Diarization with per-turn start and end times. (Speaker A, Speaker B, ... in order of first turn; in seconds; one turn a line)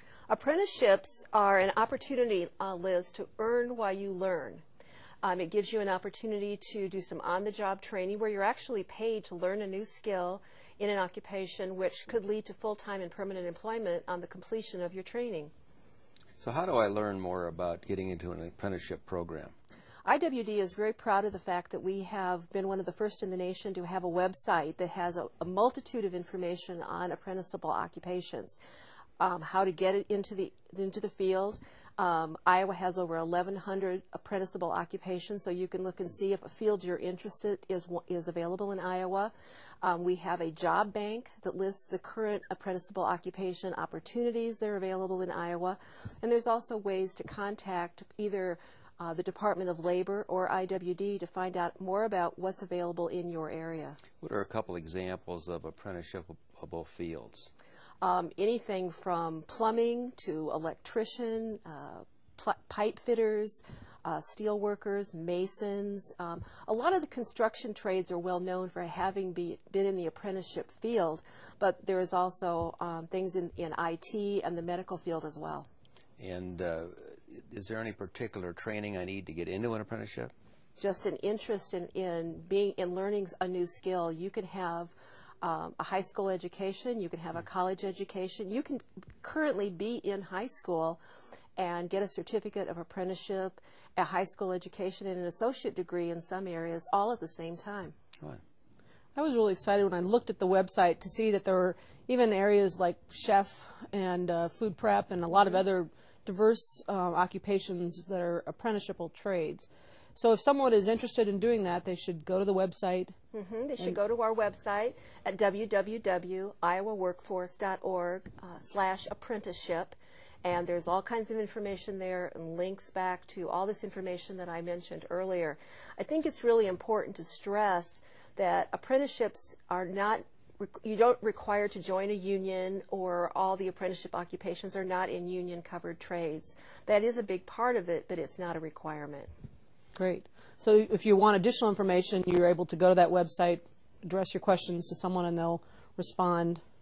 Speaker A: 0.3-4.6
Speaker A: 5.2-15.5
Speaker B: 16.4-19.5
Speaker A: 20.1-28.6
Speaker A: 29.2-54.0
Speaker B: 54.2-57.5
Speaker A: 58.0-75.7
Speaker B: 76.2-80.3
Speaker A: 80.8-91.0
Speaker A: 91.6-97.9
Speaker C: 99.2-113.1
Speaker A: 113.3-139.3
Speaker C: 140.0-146.6